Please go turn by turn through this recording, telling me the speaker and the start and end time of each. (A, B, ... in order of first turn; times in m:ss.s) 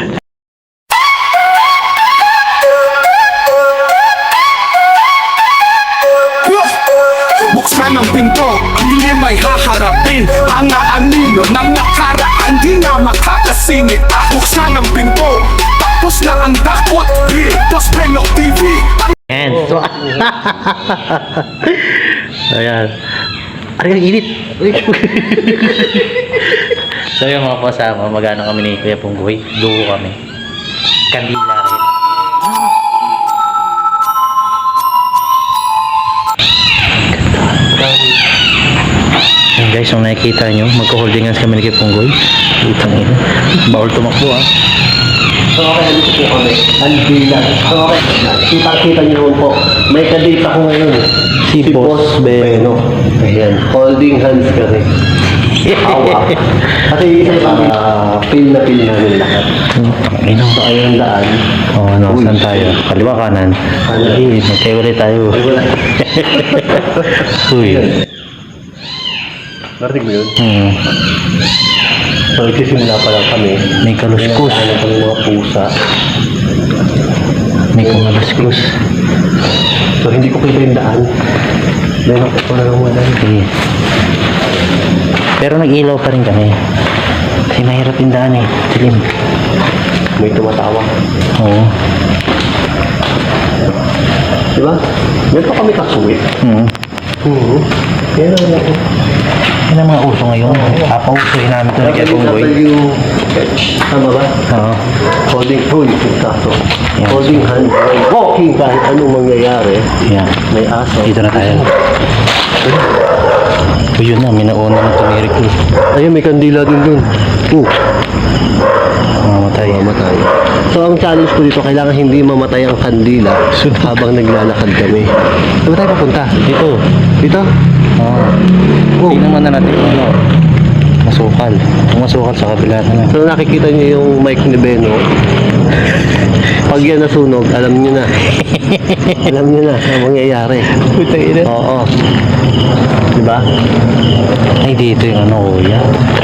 0:06.3-0:19.1 A
0:19.3-0:22.9 B
0:19.4-0:21.0 C
0:23.8-0:30.2 B
0:24.2-0:26.4 C
0:31.1-0:31.9 B
0:37.1-0:37.7 B
0:37.7-0:38.1 C
0:39.6-0:44.5 B
0:45.6-0:51.1 C
0:51.5-0:52.8 B
0:51.6-0:54.9 C
0:55.4-0:56.6 B
0:55.7-0:59.5 C
0:57.3-0:57.7 B
0:59.8-1:00.6 B
1:00.5-1:01.4 C
1:01.7-1:07.9 B
1:02.1-1:02.8 C
1:03.9-1:04.3 C
1:05.3-1:06.8 C
1:07.6-1:08.0 C
1:09.8-1:10.4 C
1:10.4-1:10.8 B
1:12.4-1:15.8 C
1:13.8-1:14.7 B
1:17.7-1:18.8 B
1:17.8-1:18.6 C
1:20.0-1:21.1 C
1:22.1-1:23.2 C
1:23.2-1:23.5 B
1:25.4-1:26.6 B
1:27.5-1:29.1 B
1:30.2-1:30.9 C
1:31.4-1:31.7 B
1:34.6-1:36.3 C
1:36.4-1:36.7 B
1:37.2-1:38.8 C
1:39.7-1:42.6 B
1:40.4-1:40.9 C
1:41.8-1:43.0 C
1:43.9-1:44.4 C
1:44.5-1:44.8 B
1:45.3-1:49.9 C
1:47.0-1:47.6 B
1:50.0-1:50.4 B
1:50.5-1:51.7 C
1:51.0-1:51.7 B
1:54.0-1:55.6 B
1:56.0-1:57.7 C
1:59.2-1:59.9 B
1:59.6-2:05.1 C
2:03.5-2:04.1 B
2:05.6-2:06.4 C
2:06.4-2:06.8 B
2:07.2-2:07.5 C
2:08.0-2:08.4 B
2:09.1-2:10.2 B
2:11.0-2:13.2 B
2:13.1-2:15.0 C
2:16.7-2:18.2 C
2:18.2-2:19.2 B
2:19.2-2:20.7 C
2:20.7-2:21.5 B
2:21.4-2:21.9 C
2:23.2-2:23.5 C
2:24.6-2:25.9 B